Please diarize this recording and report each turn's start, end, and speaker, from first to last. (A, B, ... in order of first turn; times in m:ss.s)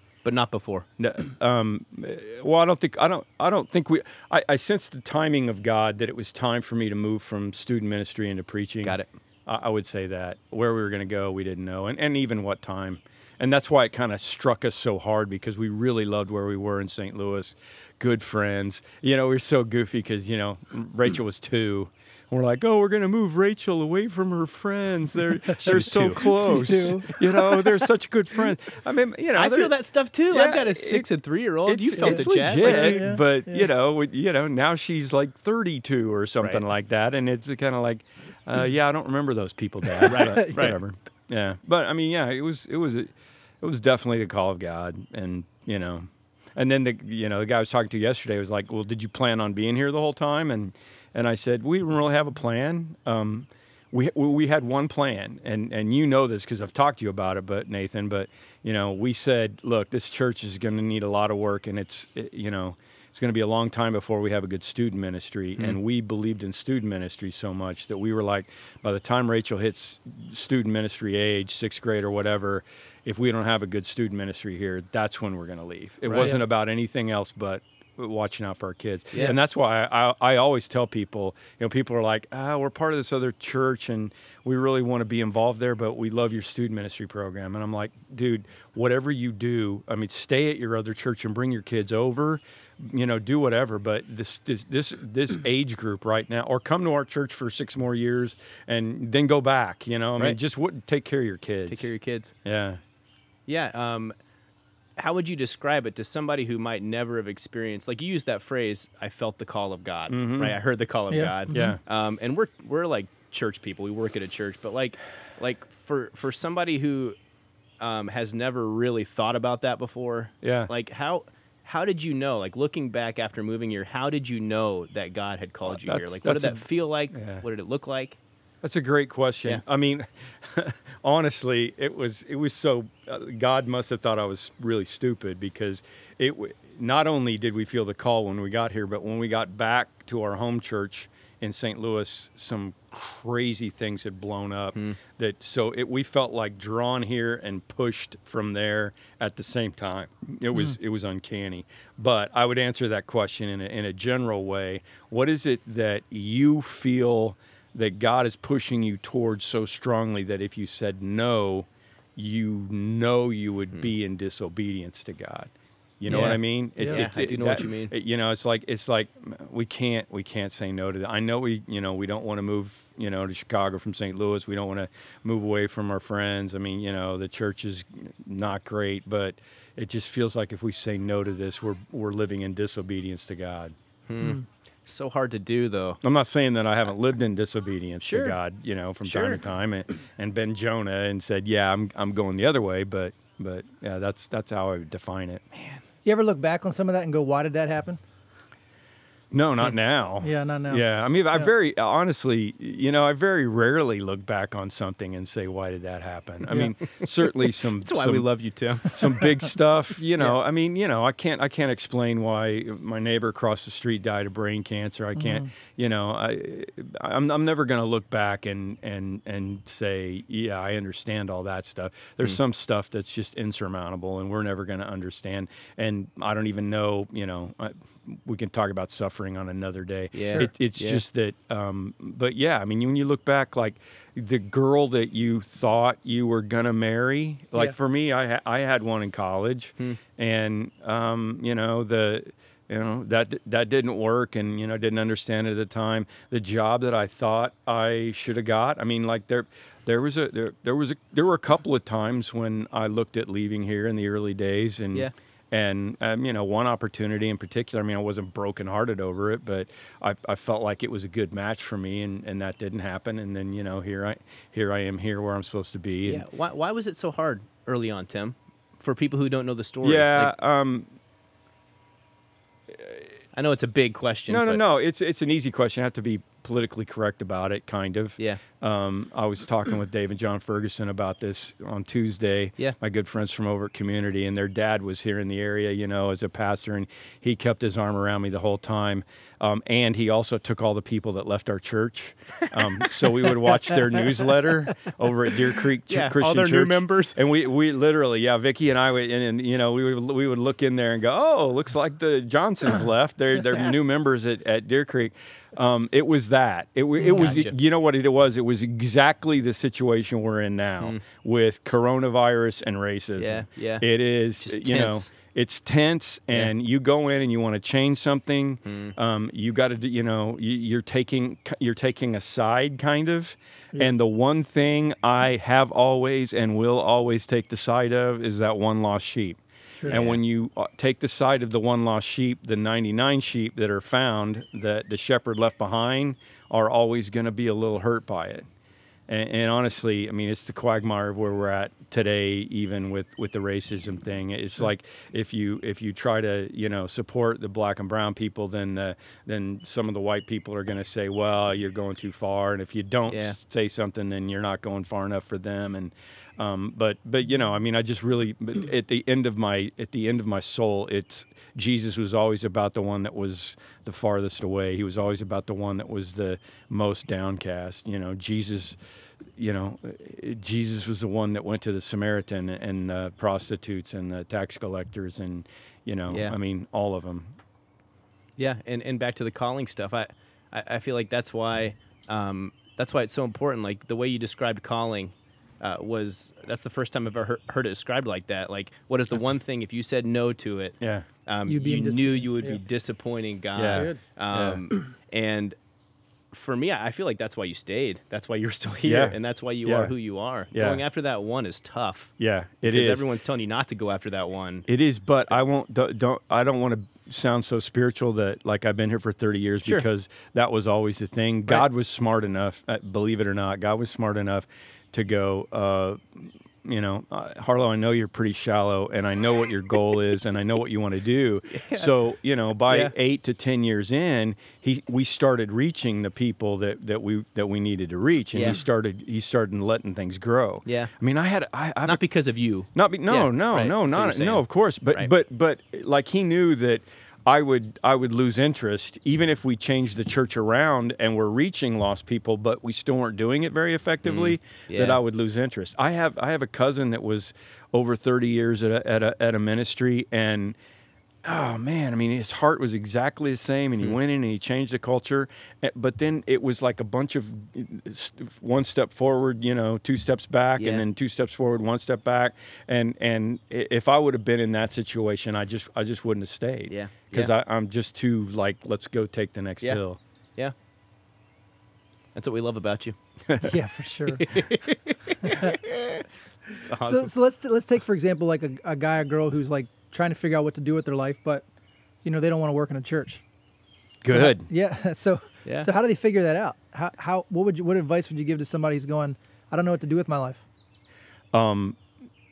0:00.2-0:00.8 A
0:01.0-0:29.7 B
0:25.6-0:27.7 A
0:26.2-0:27.1 C
0:29.4-0:33.0 A
0:30.3-0:31.1 B
0:31.6-1:41.9 B
0:32.0-0:33.7 C
0:40.0-0:40.8 A
0:40.1-0:40.7 C
1:16.0-1:16.4 A
1:41.7-1:42.3 A
1:42.4-1:42.8 B
1:43.5-1:44.1 A
1:45.0-1:57.2 A
1:50.1-1:50.6 B
1:51.1-1:51.8 C
1:51.5-1:51.8 B
1:57.8-2:08.2 A
2:00.4-2:00.7 B
2:05.6-2:07.4 B
2:08.6-3:03.7 B
2:46.1-2:47.9 A
2:46.1-2:47.0 C
3:04.1-3:06.0 A
3:06.0-3:15.8 B
3:08.0-3:08.4 A
3:09.0-3:09.4 A
3:16.0-3:18.0 C
3:19.3-3:28.3 B
3:20.2-3:21.5 C
3:26.6-3:29.2 A
3:28.8-4:26.2 B
3:35.2-3:35.5 C
3:50.1-3:51.0 A
4:26.0-4:30.3 A
4:29.8-4:30.9 B
4:33.3-4:34.6 A
4:34.3-5:38.4 B
4:55.9-4:57.2 A
5:07.0-5:07.3 C
5:07.0-5:07.5 A
5:13.2-5:13.8 A
5:14.4-5:15.1 A
5:18.6-5:18.9 A
5:29.9-5:30.2 A
5:39.1-6:08.8 B
5:53.1-5:53.4 A
6:09.4-6:17.4 B
6:16.1-6:16.3 A
6:18.4-6:35.6 A
6:30.8-6:31.1 B
6:31.4-6:32.6 C
6:33.5-6:34.6 B
6:33.7-6:34.0 C
6:36.3-6:42.1 A
6:38.8-6:39.9 B
6:40.5-6:40.8 B
6:42.2-6:43.0 B
6:42.6-6:44.6 A
6:44.7-7:12.0 B
7:01.5-7:01.9 A
7:02.7-7:02.9 A
7:08.3-7:08.6 A
7:10.6-7:10.9 A
7:11.8-7:15.1 A
7:12.7-7:30.6 B
7:24.0-7:25.0 A
7:31.2-7:50.0 B
7:40.6-7:40.8 A
7:46.7-7:47.3 A
7:52.1-7:52.9 A
7:53.4-7:54.4 C
7:54.2-7:56.0 A
7:55.2-7:55.6 C
7:56.6-7:57.1 A
7:56.8-8:01.4 C
8:02.0-8:03.2 C
8:04.0-8:04.5 B
8:04.1-8:10.4 C
8:11.3-8:11.8 B